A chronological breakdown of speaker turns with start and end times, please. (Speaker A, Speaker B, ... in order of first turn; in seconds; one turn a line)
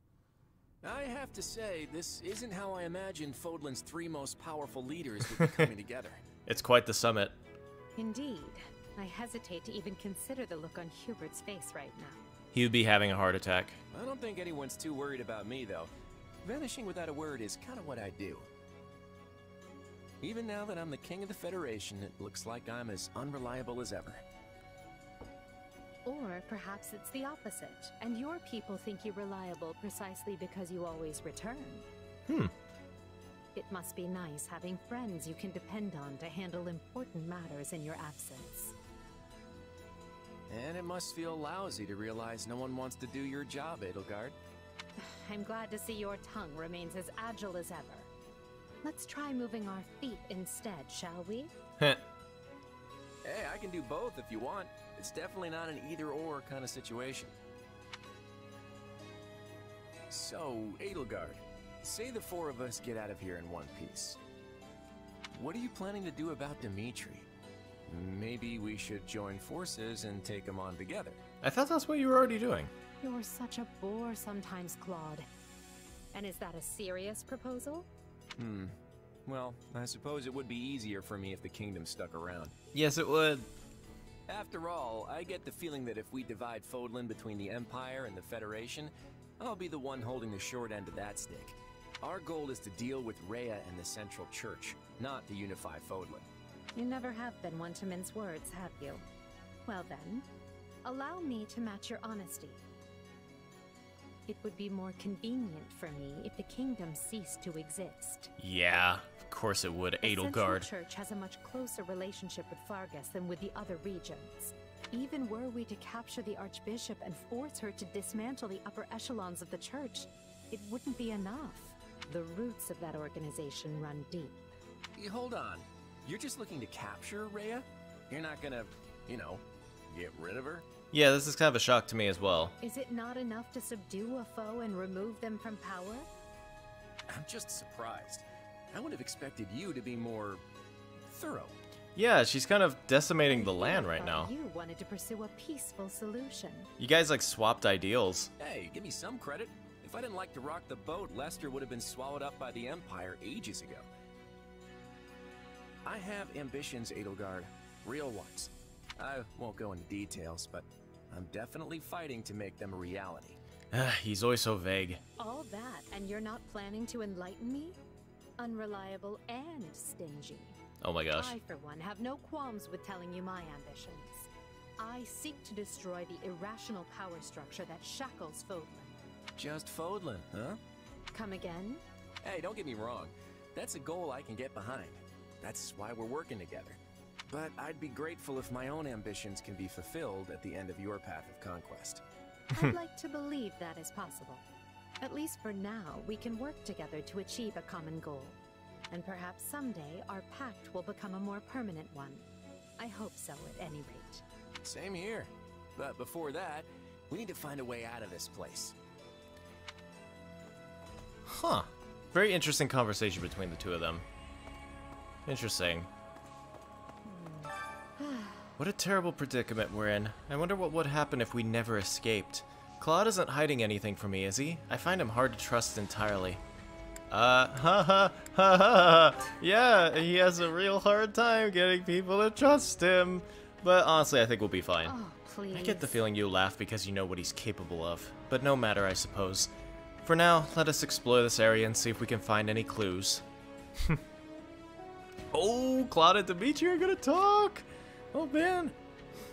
Speaker A: 0.8-6.2
Speaker B: 5.4-5.7
Speaker B: 6.5-7.3
Speaker C: 8.0-12.2
Speaker B: 12.5-13.8
Speaker A: 13.9-15.9
Speaker A: 16.4-18.5
Speaker A: 20.2-24.2
Speaker C: 26.1-31.9
Speaker B: 32.3-32.5
Speaker C: 33.5-38.8
Speaker A: 40.5-44.4
Speaker C: 45.0-48.1
Speaker C: 48.8-51.5
Speaker A: 53.2-57.4
Speaker A: 60.1-64.2
Speaker A: 65.3-67.3
Speaker A: 67.9-71.2
Speaker B: 71.4-72.7
Speaker C: 73.0-75.3
Speaker C: 76.1-77.9
Speaker A: 78.4-82.5
Speaker B: 82.7-83.5
Speaker A: 84.3-96.3
Speaker C: 96.8-99.0
Speaker C: 99.7-100.3
Speaker C: 100.8-102.6
Speaker C: 104.3-108.3
Speaker B: 108.4-110.7
Speaker C: 110.0-124.4
Speaker A: 125.0-130.7
Speaker B: 130.9-132.6
Speaker C: 132.6-136.1
Speaker A: 137.1-140.4
Speaker A: 141.0-141.6
Speaker B: 142.0-144.3
Speaker C: 143.3-146.7
Speaker B: 146.8-148.3
Speaker A: 148.4-153.9
Speaker A: 155.8-163.4
Speaker B: 163.7-165.0
Speaker C: 165.2-167.8
Speaker C: 168.4-170.6
Speaker B: 170.8-171.3
Speaker C: 171.1-179.0
Speaker A: 179.4-180.6
Speaker C: 181.1-181.8
Speaker A: 182.2-192.0
Speaker C: 192.5-194.4
Speaker C: 195.0-198.4
Speaker C: 198.9-202.2
Speaker C: 202.8-204.2
Speaker A: 204.6-208.8
Speaker B: 211.3-214.1
Speaker B: 215.3-215.9
Speaker C: 217.1-218.5
Speaker B: 218.6-226.4
Speaker B: 227.1-234.9
Speaker C: 234.8-236.0
Speaker B: 235.5-239.5
Speaker B: 240.0-243.2
Speaker B: 245.3-248.8